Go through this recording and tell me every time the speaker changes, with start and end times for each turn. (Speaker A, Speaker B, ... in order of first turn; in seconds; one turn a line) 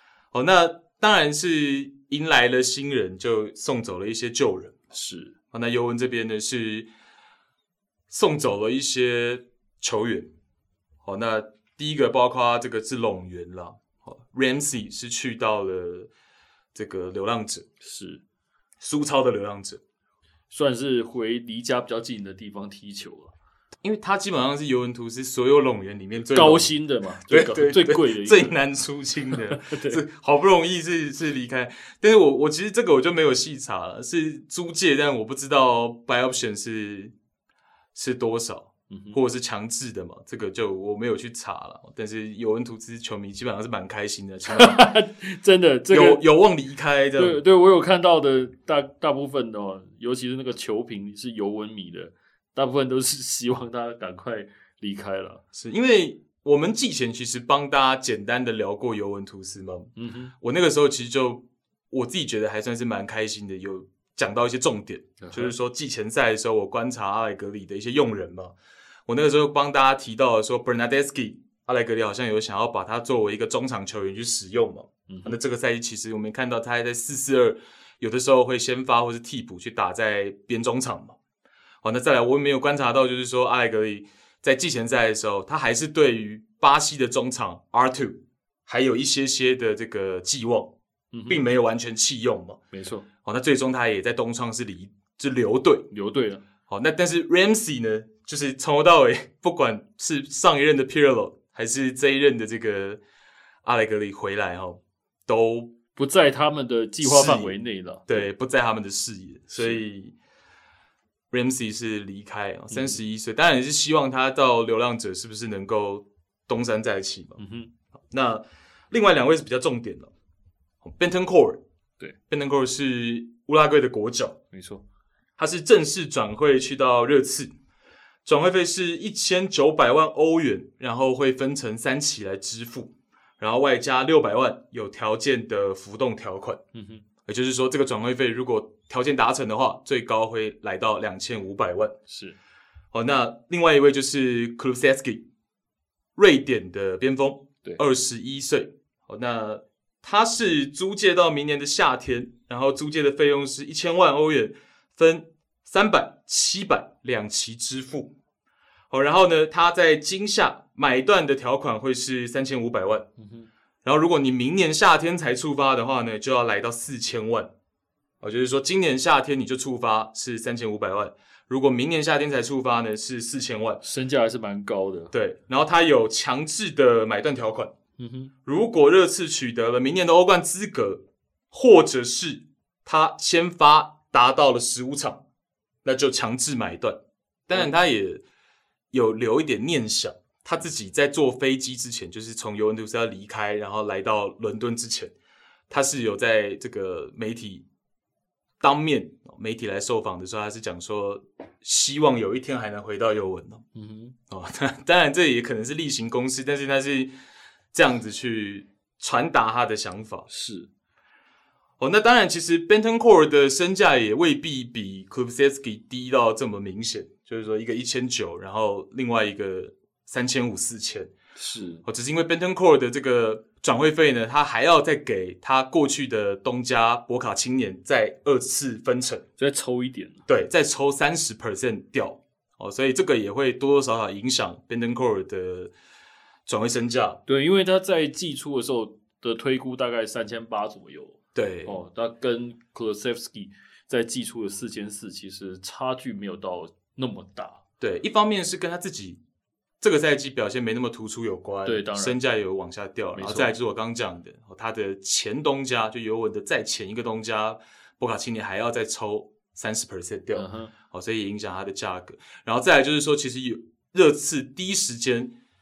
Speaker A: 0.3-4.8
Speaker B: 4.9-5.3
Speaker A: 5.5-6.9
Speaker A: 8.1-10.3
Speaker A: 11.1-16.1
Speaker A: 16.7-17.7
Speaker B: 17.8-18.2
Speaker A: 18.8-19.8
Speaker B: 20.5-23.3
Speaker A: 23.8-26.7
Speaker B: 26.3-28.6
Speaker A: 27.3-37.1
Speaker B: 29.3-30.0
Speaker A: 38.0-44.9
Speaker B: 38.9-39.2
Speaker B: 44.5-46.2
Speaker A: 45.9-47.4
Speaker B: 47.2-55.4
Speaker A: 55.5-68.6
Speaker B: 60.0-60.3
Speaker B: 65.2-65.5
Speaker A: 69.1-81.2
Speaker B: 75.1-75.4
Speaker A: 81.8-90.7
Speaker B: 91.1-91.4
Speaker A: 91.3-92.6
Speaker B: 92.7-93.1
Speaker A: 93.2-95.9
Speaker B: 95.9-96.4
Speaker A: 96.7-103.0
Speaker A: 103.6-105.8
Speaker B: 106.0-108.3
Speaker A: 107.0-110.2
Speaker B: 109.5-109.8
Speaker A: 111.3-117.4
Speaker B: 112.7-113.0
Speaker B: 117.4-117.7
Speaker A: 118.1-120.1
Speaker A: 120.8-121.6
Speaker A: 122.3-124.4
Speaker B: 124.5-124.8
Speaker A: 125.4-127.5
Speaker A: 128.2-136.6
Speaker B: 136.7-137.1
Speaker A: 137.3-142.0
Speaker B: 142.1-142.4
Speaker A: 142.9-145.3
Speaker A: 146.2-158.2
Speaker A: 158.9-163.1
Speaker B: 163.2-163.5
Speaker A: 163.8-167.5
Speaker A: 168.2-173.8
Speaker B: 173.8-175.1
Speaker A: 175.1-177.8
Speaker B: 178.0-178.3
Speaker A: 178.4-185.2
Speaker A: 185.8-188.2
Speaker A: 188.9-195.1
Speaker A: 195.7-197.7
Speaker A: 198.6-203.6
Speaker B: 203.8-204.2
Speaker A: 204.3-207.1
Speaker A: 207.7-210.3
Speaker B: 210.3-210.7
Speaker A: 211.8-221.1
Speaker B: 221.4-221.8
Speaker A: 221.8-229.2
Speaker B: 229.4-230.2
Speaker A: 230.3-235.7
Speaker A: 236.5-237.2
Speaker B: 237.3-247.6
Speaker A: 241.3-241.8
Speaker A: 247.8-249.2
Speaker A: 249.8-265.3
Speaker B: 251.7-252.2
Speaker B: 253.2-253.5
Speaker B: 260.3-260.7